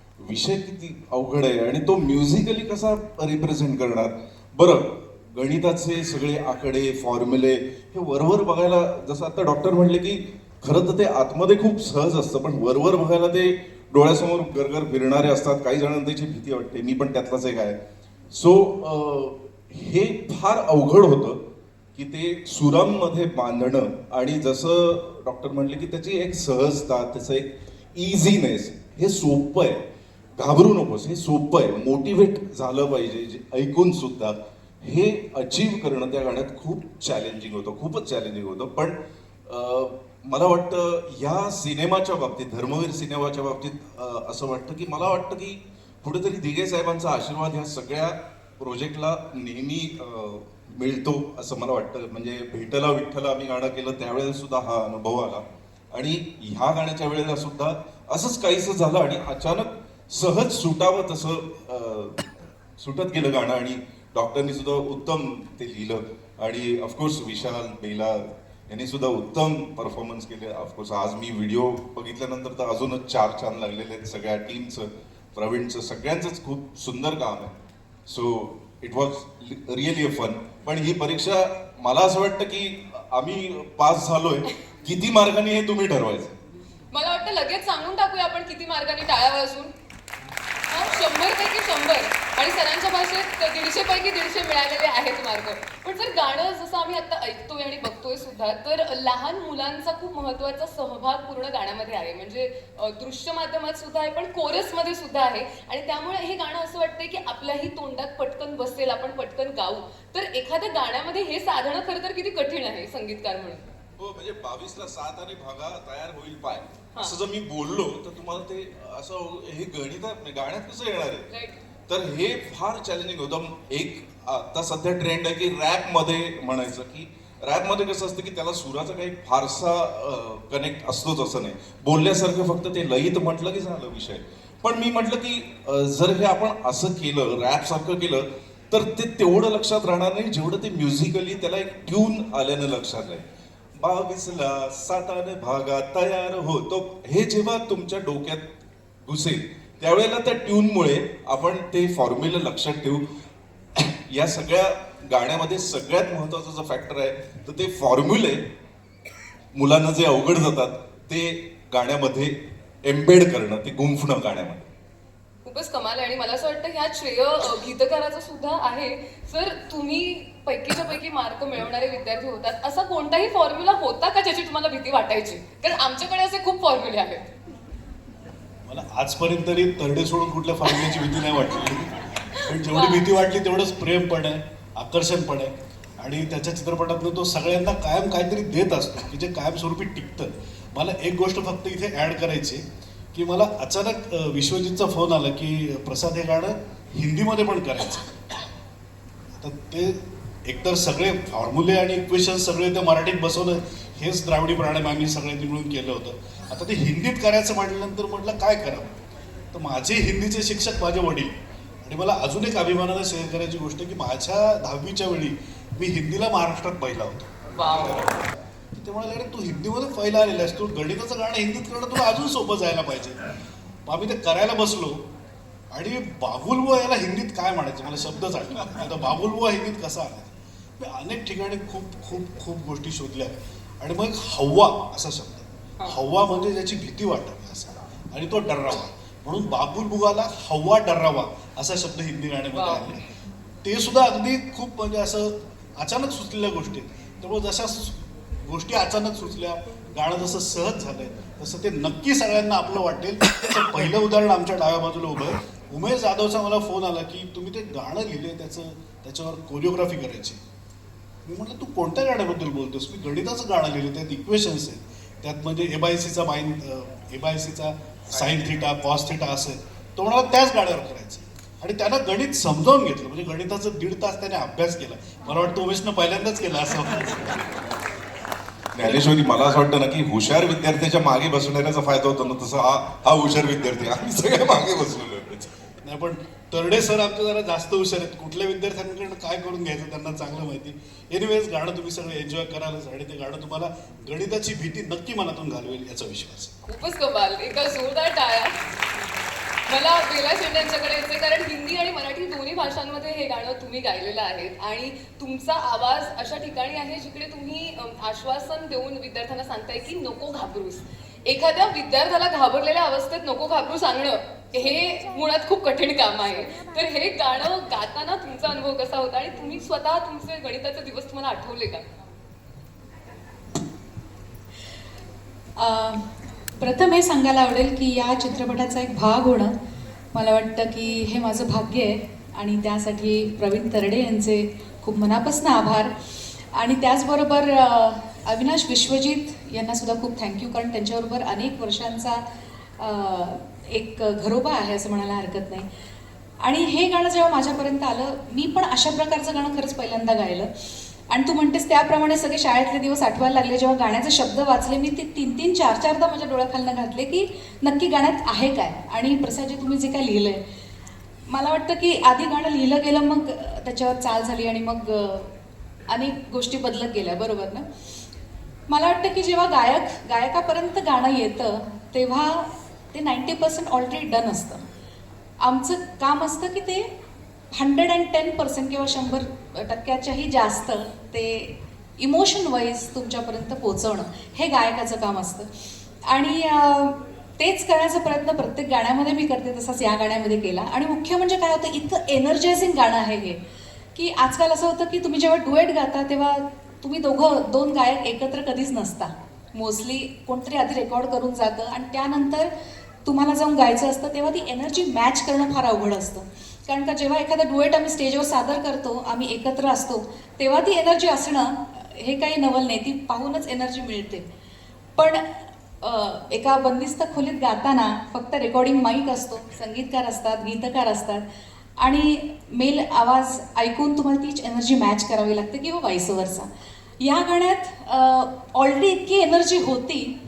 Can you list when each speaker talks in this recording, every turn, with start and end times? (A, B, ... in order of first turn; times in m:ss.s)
0:00.2-0:17.8 A
0:18.3-0:21.4 A
0:22.0-0:29.8 A
0:30.4-0:39.0 A
0:39.5-1:17.5 A
1:18.1-1:26.4 A
1:26.9-1:29.7 B
1:30.7-1:53.7 B
1:54.0-2:01.3 A
2:01.3-2:01.6 B
2:01.9-2:23.3 A
2:23.8-2:28.4 A
2:29.1-2:33.0 A
2:33.8-2:38.4 A
2:39.6-2:44.7 A
2:45.4-2:57.3 B
2:58.7-3:12.6 C
3:02.6-3:03.1 B
3:13.1-3:18.1 C
3:19.4-3:29.0 C
3:29.5-3:31.3 C
3:31.8-3:37.3 C
3:37.5-3:38.1 B
3:38.7-3:43.2 C
3:43.9-3:45.0 C
3:45.7-4:03.1 C
4:02.5-4:02.9 B
4:03.6-4:20.4 C
4:21.3-4:37.5 C
4:38.8-4:45.5 A
4:45.8-4:56.5 C
4:56.6-4:58.6 B
4:59.7-5:21.8 B
5:25.6-5:26.0 D
5:26.6-5:29.5 D
5:30.1-5:35.9 D
5:36.5-5:42.2 D
5:42.8-5:45.7 D
5:46.4-5:50.5 D
5:51.1-6:00.4 D
6:01.3-6:05.3 D
6:05.9-6:07.6 D
6:08.7-6:14.6 D
6:15.4-6:16.9 D
6:17.5-6:25.5 D
6:26.1-6:33.4 D
6:34.0-6:42.5 D
6:43.1-6:54.2 D
6:55.0-6:55.2 D
6:55.8-7:01.2 D
7:01.8-7:06.5 D
7:07.0-7:10.1 D